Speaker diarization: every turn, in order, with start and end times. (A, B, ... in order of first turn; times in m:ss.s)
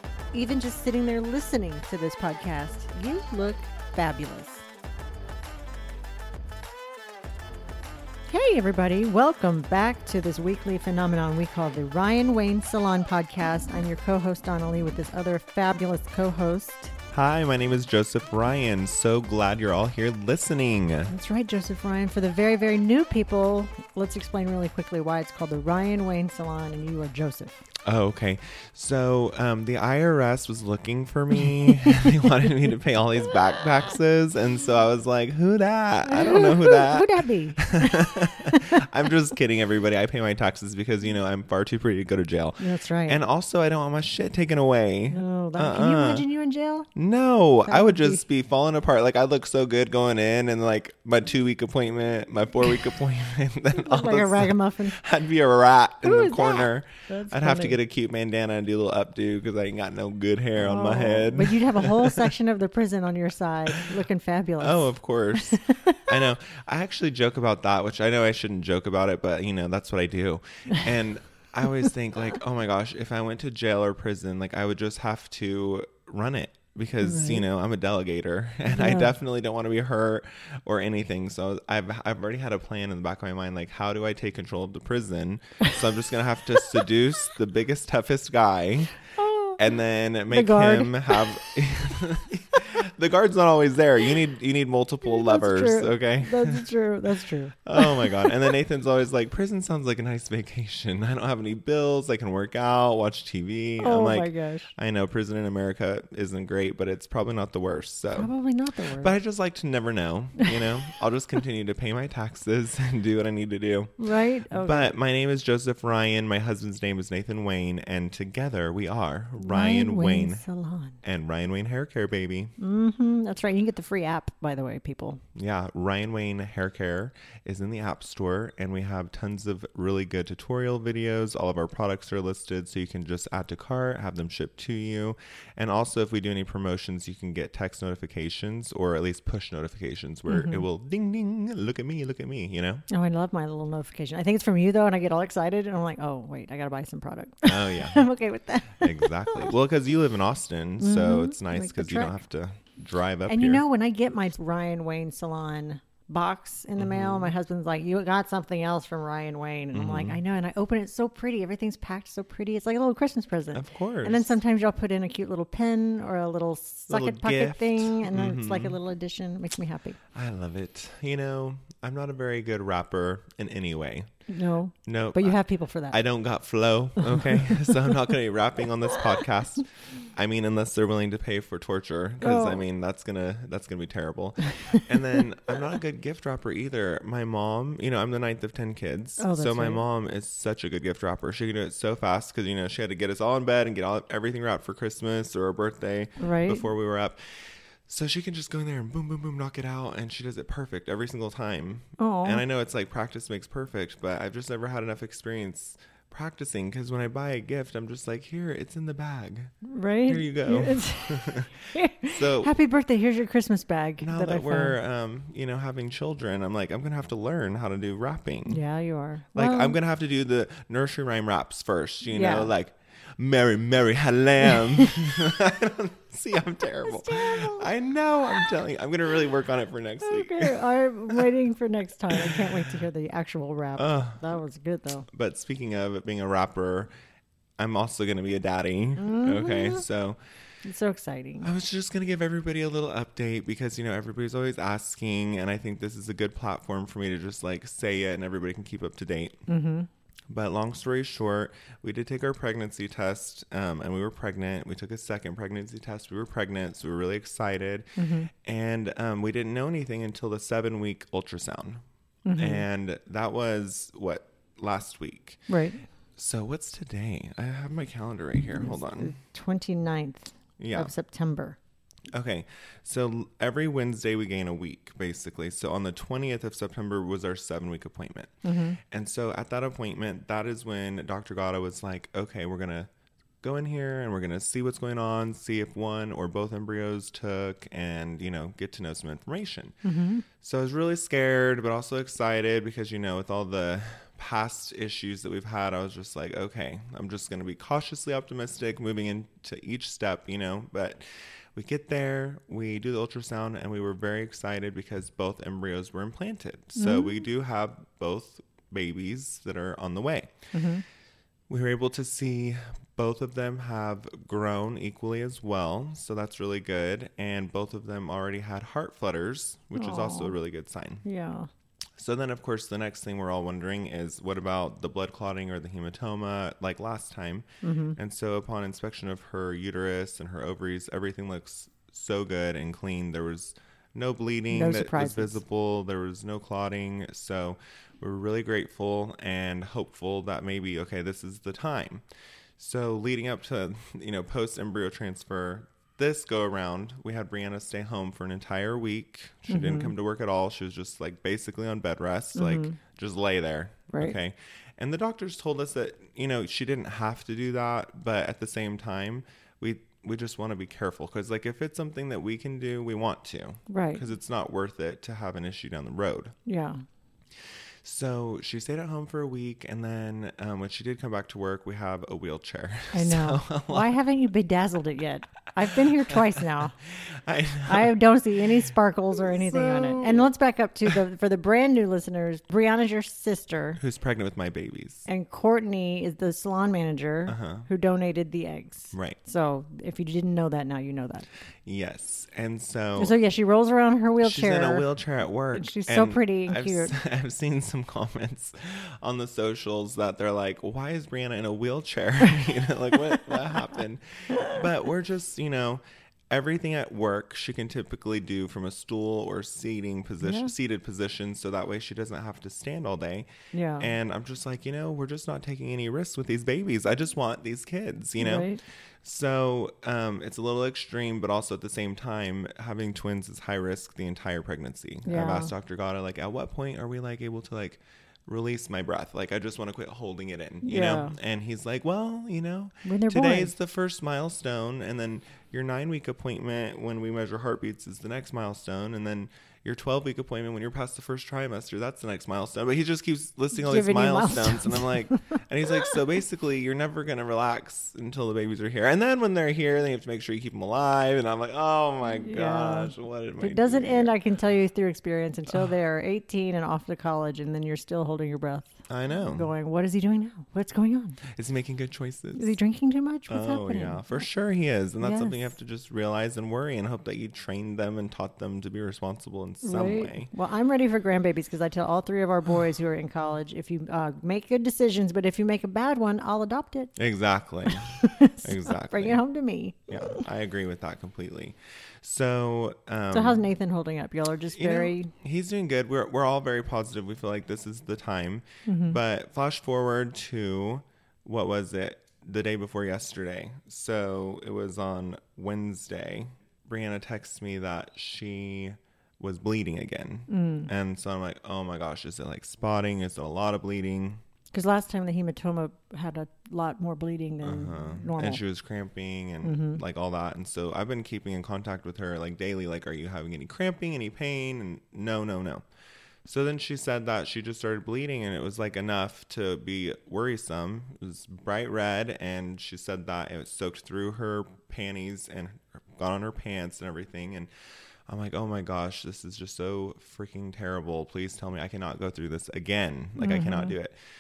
0:00.3-0:04.6 A
0:08.3-0:16.9 A
0:17.1-0:21.1 B
0:21.1-0:27.6 A
0:27.8-0:46.3 B
0:36.0-0:38.8 A
0:42.6-0:43.2 A
0:45.1-0:46.9 A
0:47.0-1:02.3 B
0:47.7-0:48.2 A
0:53.7-0:55.0 A
0:56.0-0:57.8 A
1:00.6-1:06.1 A
1:04.6-1:29.0 B
1:17.0-1:17.4 A
1:18.7-1:19.1 A
1:29.2-1:29.6 A
1:29.6-1:36.6 B
1:30.3-1:31.4 A
1:35.0-1:38.3 A
1:37.7-1:48.3 B
1:43.8-1:44.7 A
1:48.1-1:49.2 A
1:49.0-1:54.0 B
1:54.0-1:54.9 A
1:54.5-2:00.4 B
1:59.4-2:01.0 A
2:01.0-2:02.6 B
2:02.6-2:05.2 A
2:05.4-2:22.8 B
2:20.3-2:20.6 A
2:22.9-2:29.5 A
2:27.4-2:28.1 B
2:28.8-2:33.6 B
2:30.8-2:32.2 A
2:33.2-2:50.0 A
2:36.8-2:37.3 B
2:39.7-2:40.2 B
2:43.5-2:44.4 B
2:46.9-2:48.8 B
2:50.2-2:54.1 B
2:54.3-2:56.0 A
2:54.9-2:55.4 B
2:55.9-3:29.5 B
2:57.0-2:57.7 A
3:02.2-3:02.6 A
3:09.2-3:09.8 A
3:16.2-3:16.7 A
3:22.0-3:22.4 A
3:29.6-3:34.8 A
3:30.1-3:32.5 B
3:34.0-3:38.6 B
3:38.5-3:39.8 A
3:39.4-3:51.3 B
3:42.1-3:42.5 A
3:44.6-3:44.9 A
3:46.8-3:47.7 A
3:50.0-3:55.1 A
3:52.1-3:52.4 B
3:53.8-3:54.2 B
3:55.1-3:56.9 B
3:57.6-4:00.2 B
3:59.0-3:59.9 A
4:00.6-4:01.5 A
4:01.4-4:09.4 B
4:09.5-4:09.9 A
4:10.3-4:17.9 B
4:18.0-4:18.3 A
4:18.4-4:21.8 B
4:22.2-4:22.6 A
4:22.4-4:25.4 B
4:25.5-4:25.8 A
4:26.2-4:29.1 B
4:28.6-4:31.6 A
4:30.6-4:30.9 B
4:32.1-4:38.3 B
4:38.4-4:38.8 A
4:38.9-4:42.9 B
4:43.4-4:49.8 B
4:49.8-4:50.2 A
4:50.4-5:10.3 B
5:06.8-5:07.2 A
5:10.5-5:10.8 A
5:11.5-5:21.0 B
5:19.8-5:20.4 A
5:21.0-5:21.5 A
5:22.0-5:42.0 B
5:27.6-5:28.0 A
5:34.5-5:35.4 A
5:42.6-6:06.4 B
5:49.5-5:49.9 A
5:52.4-5:52.8 A
6:03.7-6:04.0 A
6:06.4-6:06.8 A
6:07.8-6:13.9 B
6:12.9-6:16.8 A
6:16.1-6:16.4 B
6:17.0-6:18.0 B
6:17.7-6:23.8 A
6:19.2-6:20.3 B
6:23.8-6:25.1 B
6:25.1-6:31.3 A
6:27.3-6:27.7 B
6:28.9-6:29.2 B
6:31.7-6:33.2 B
6:33.0-6:34.9 A
6:34.2-6:53.3 B
6:35.5-6:37.0 A
6:50.2-6:50.5 A
6:53.5-6:53.9 A
6:53.8-6:58.5 B
6:58.2-6:58.6 A
6:59.0-7:34.1 B
7:05.0-7:05.5 A
7:10.6-7:11.1 A
7:12.8-7:13.5 A
7:23.6-7:25.2 A
7:32.0-7:41.2 A
7:38.9-7:39.5 B
7:41.4-7:42.6 B
7:42.4-7:44.2 A
7:43.3-7:50.3 B
7:45.0-7:45.5 A
7:49.6-7:56.9 A
7:57.0-7:59.2 B
7:57.7-8:00.2 A
7:59.9-8:03.4 B
8:03.1-8:05.1 A
8:04.5-8:24.2 B
8:08.7-8:09.0 A
8:20.3-8:20.7 A
8:24.5-8:28.4 A
8:27.4-8:35.6 B
8:29.4-8:29.8 A
8:36.2-8:47.5 B
8:48.1-8:54.0 B
8:53.2-8:53.8 A